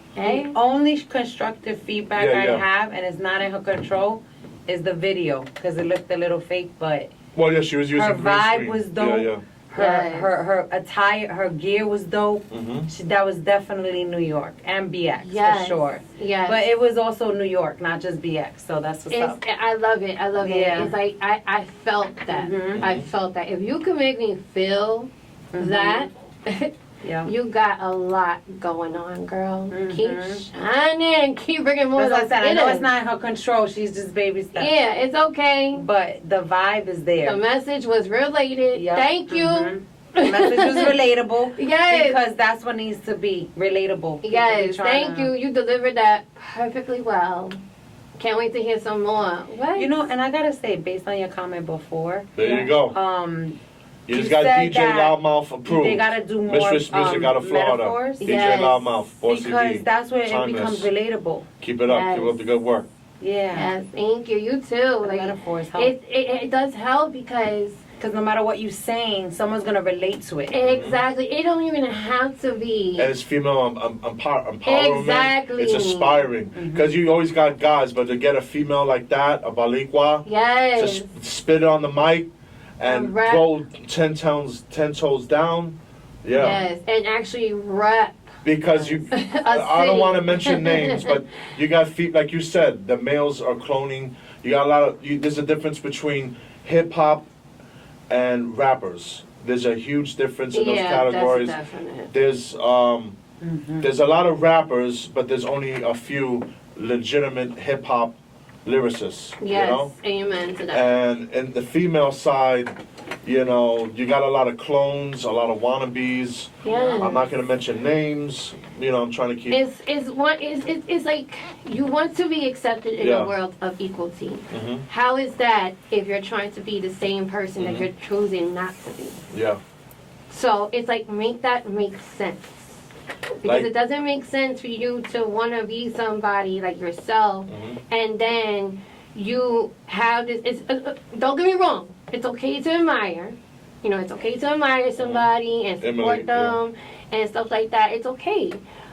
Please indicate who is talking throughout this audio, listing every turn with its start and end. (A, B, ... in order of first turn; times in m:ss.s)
0:00.2-0:00.6 A
0:00.2-0:07.1 B
0:02.2-0:02.6 C
0:07.3-0:09.4 C
0:07.9-0:19.4 B
0:09.7-0:10.3 A
0:12.5-0:12.9 C
0:15.2-0:16.6 A
0:19.1-0:26.7 A
0:20.4-0:20.9 B
0:22.3-0:22.9 B
0:22.7-0:23.0 C
0:25.5-0:26.1 B
0:27.0-0:27.3 B
0:27.2-0:32.9 A
0:29.7-0:30.4 B
0:31.9-0:34.7 B
0:34.5-0:35.8 A
0:35.7-0:37.4 B
0:37.2-0:40.9 A
0:38.7-0:45.3 B
0:41.5-0:42.2 A
0:44.2-0:47.6 A
0:48.2-0:49.9 A
0:49.7-0:53.6 B
0:52.4-0:53.0 C
0:54.0-1:00.9 C
0:54.1-0:58.4 B
0:58.2-0:59.1 A
0:59.2-1:01.5 B
1:01.6-1:02.9 C
1:01.8-1:02.4 A
1:03.2-1:03.7 B
1:03.5-1:07.8 A
1:05.0-1:05.9 B
1:08.0-1:10.6 B
1:10.5-1:13.1 A
1:10.6-1:11.0 C
1:13.0-1:22.3 C
1:14.6-1:16.3 A
1:16.5-1:16.9 B
1:20.2-1:21.1 A
1:22.8-1:26.6 C
1:22.8-1:23.5 A
1:26.3-1:28.3 A
1:28.4-1:37.2 C
1:29.1-1:31.1 A
1:38.1-1:41.6 C
1:40.5-1:42.1 A
1:42.1-1:43.2 C
1:43.4-1:43.9 B
1:43.8-1:49.9 C
1:49.4-1:50.9 A
1:50.7-1:59.6 C
1:56.6-1:57.2 A
1:56.6-1:57.1 B
1:59.5-2:09.2 A
2:03.0-2:03.3 C
2:04.5-2:04.8 C
2:07.6-2:07.9 C
2:09.3-2:09.6 C
2:10.3-2:12.8 A
2:13.4-2:28.6 A
2:17.5-2:17.8 C
2:25.0-2:25.3 C
2:25.8-2:26.6 C